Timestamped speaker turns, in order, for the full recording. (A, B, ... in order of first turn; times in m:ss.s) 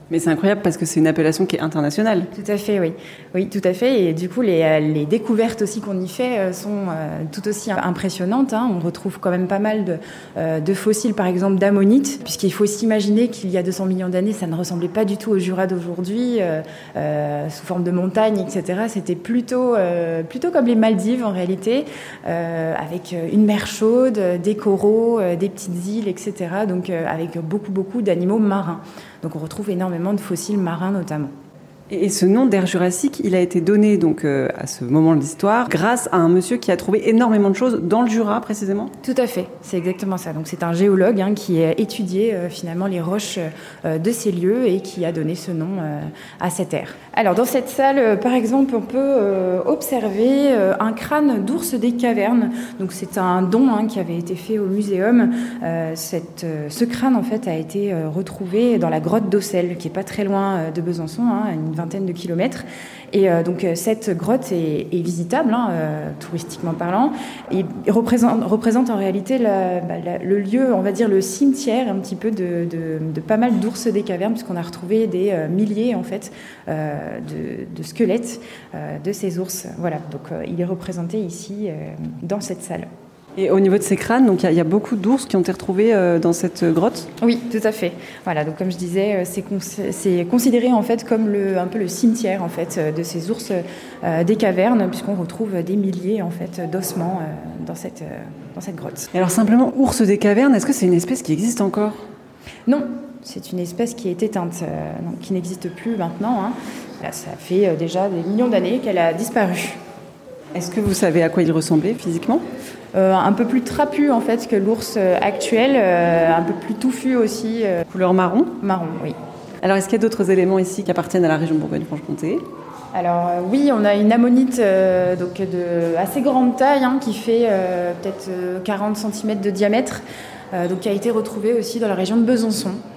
0:00.1-0:02.3 A
0:02.3-0:31.3 B
0:31.9-0:38.9 A
0:39.0-1:22.9 B
1:23.4-1:27.1 A
1:27.2-1:39.1 B
1:39.1-1:42.0 A
1:42.6-1:49.8 B
1:50.5-1:52.4 A
1:52.9-1:57.8 B
1:57.9-1:58.5 A
1:58.6-1:59.2 B
1:59.6-2:02.4 A
2:02.9-2:12.8 B